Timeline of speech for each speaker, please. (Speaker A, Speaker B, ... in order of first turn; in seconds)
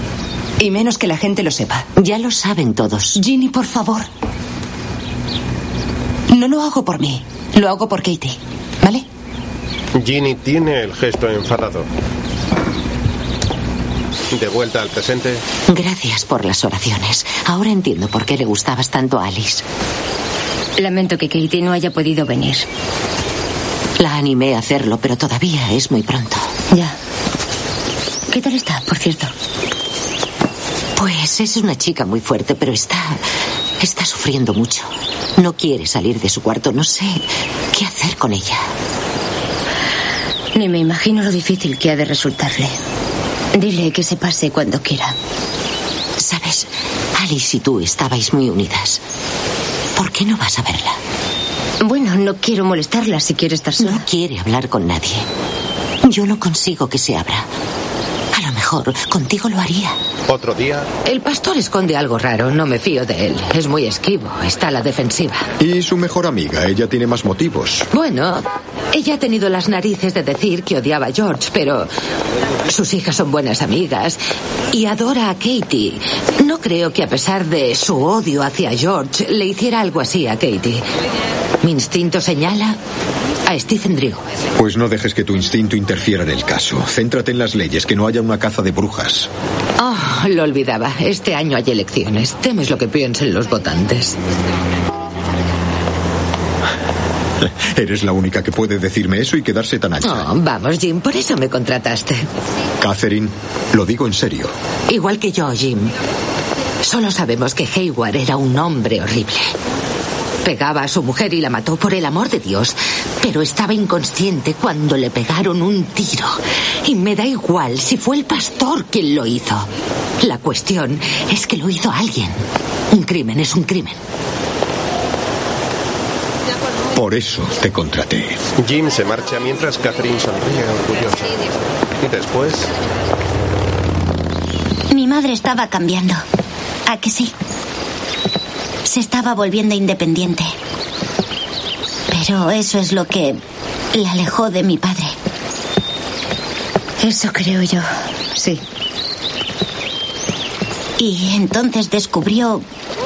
Speaker A: 0.6-1.9, 3.1-4.1, 6.3-9.1
Speaker B: 2.0-3.2, 15.7-19.6, 24.0-26.5, 31.0-33.2, 33.8-38.6, 46.2-49.0, 50.0-51.0, 53.8-55.3, 56.0-57.5, 58.3-60.0
Speaker C: 10.0-11.9, 14.3-15.4, 60.3-60.9, 128.6-131.4, 132.0-132.7
Speaker D: 20.8-22.7, 26.7-27.0, 28.3-29.3, 40.5-42.7, 43.5-45.2, 51.8-54.0, 147.0-148.6
Speaker E: 61.1-65.5, 67.9-71.9, 72.7-74.2, 74.7-80.8, 81.6-82.8, 83.5-84.2, 89.8-94.2, 100.0-102.3, 104.9-105.9, 106.8-109.5, 110.4-119.7, 120.2-122.4, 122.9-124.0
Speaker F: 65.6-67.9, 84.6-89.3, 97.4-100.3, 102.8-104.5, 126.9-128.4
Speaker G: 134.9-136.2, 136.9-137.3, 138.9-140.5, 142.1-143.4, 143.9-145.2, 151.0-152.6